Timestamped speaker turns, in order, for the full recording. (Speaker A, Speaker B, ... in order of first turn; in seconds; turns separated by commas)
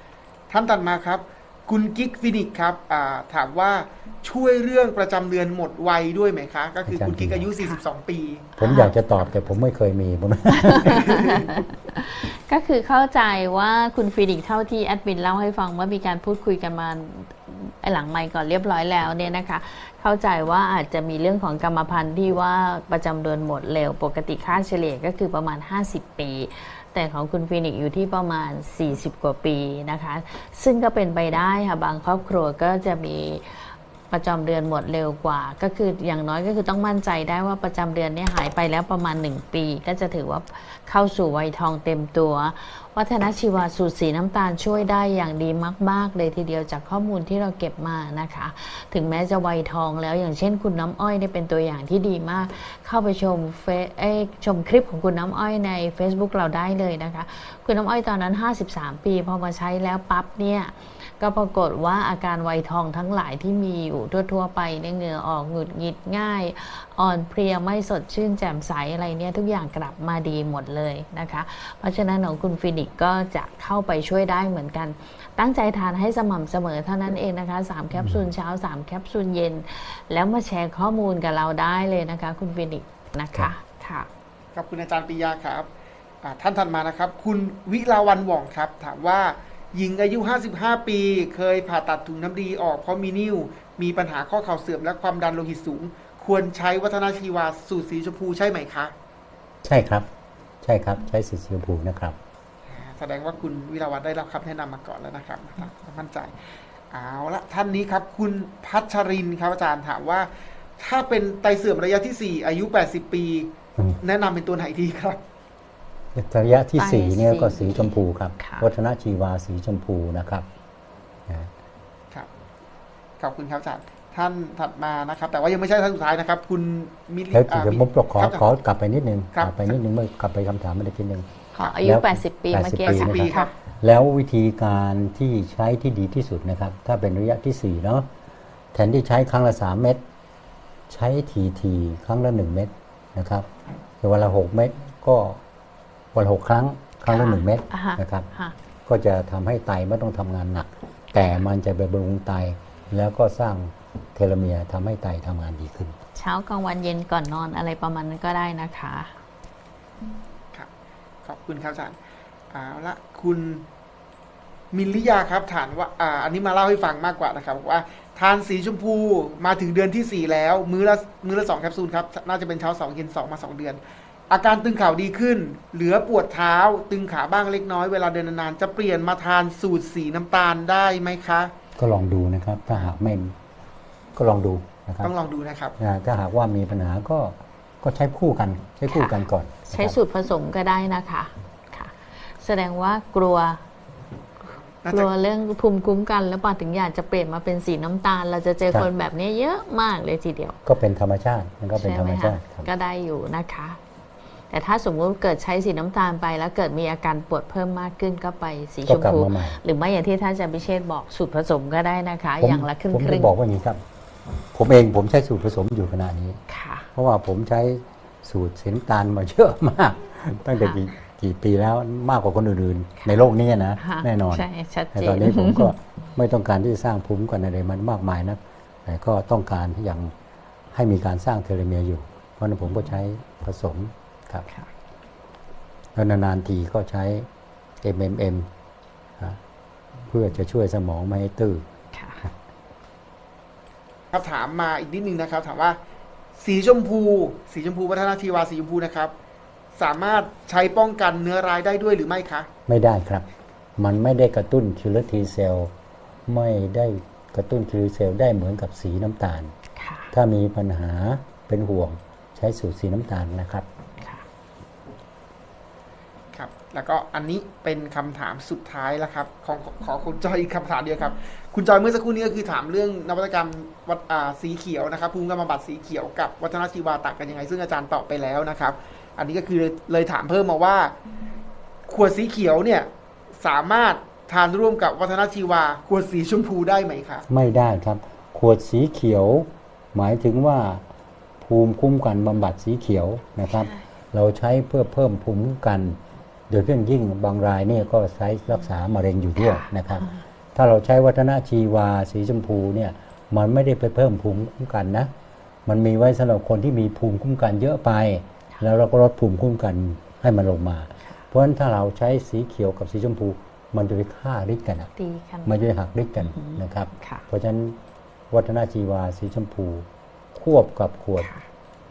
Speaker A: 0.5-8.6, Speaker B: 6.9-7.5, Speaker B: 8.6-11.3, Speaker C: 8.6-8.9, Speaker C: 10.7-84.1, Speaker A: 11.0-11.5, Speaker B: 78.0-78.2, Speaker A: 84.5-85.7, Speaker A: 86.2-98.9, Speaker B: 99.6-100.1, Speaker B: 100.6-102.2, Speaker A: 102.7-115.2, Speaker B: 116.2-120.5, Speaker C: 116.8-118.7, Speaker A: 123.2-128.5, Speaker B: 127.3-131.3, Speaker A: 129.3-129.7, Speaker C: 131.5-133.5, Speaker B: 131.8-138.1, Speaker A: 132.9-133.5, Speaker B: 138.7-140.0, Speaker B: 140.9-143.5, Speaker B: 144.0-145.4, Speaker B: 146.1-148.3, Speaker C: 147.1-148.6, Speaker B: 148.9-156.0, Speaker C: 156.2-159.2, Speaker A: 161.2-162.0, Speaker A: 162.5-163.7, Speaker A: 164.7-173.8, Speaker A: 174.3-181.5, Speaker B: 181.8-183.3, Speaker A: 182.7-182.9, Speaker B: 184.2-185.1, Speaker A: 185.0-185.8, Speaker B: 185.8-190.0, Speaker C: 188.9-193.6, Speaker C: 194.4-200.6, Speaker A: 194.8-195.1, Speaker B: 200.7-202.7, Speaker C: 201.8-203.8, Speaker C: 204.5-213.3, Speaker B: 208.9-209.6, Speaker B: 212.4-213.8, Speaker B: 214.5-216.4, Speaker C: 216.5-216.9, Speaker B: 216.9-230.1, Speaker C: 223.8-225.7, Speaker B: 230.7-234.5, Speaker B: 236.0-237.3, Speaker B: 237.8-238.5, Speaker B: 240.1-241.6, Speaker C: 241.9-242.2, Speaker A: 244.1-245.8, Speaker A: 246.4-249.1, Speaker A: 249.8-252.5, Speaker B: 252.7-253.2, Speaker B: 253.8-255.7, Speaker B: 256.3-259.5, Speaker C: 259.8-260.1, Speaker B: 260.1-263.7, Speaker A: 266.3-280.9, Speaker A: 281.9-287.3, Speaker B: 287.3-290.8, Speaker B: 291.4-296.0, Speaker B: 296.5-305.1, Speaker C: 299.4-299.7, Speaker B: 305.7-314.9, Speaker C: 315.0-315.6, Speaker B: 315.5-317.8, Speaker C: 316.3-317.3, Speaker B: 318.3-321.3, Speaker C: 321.2-321.4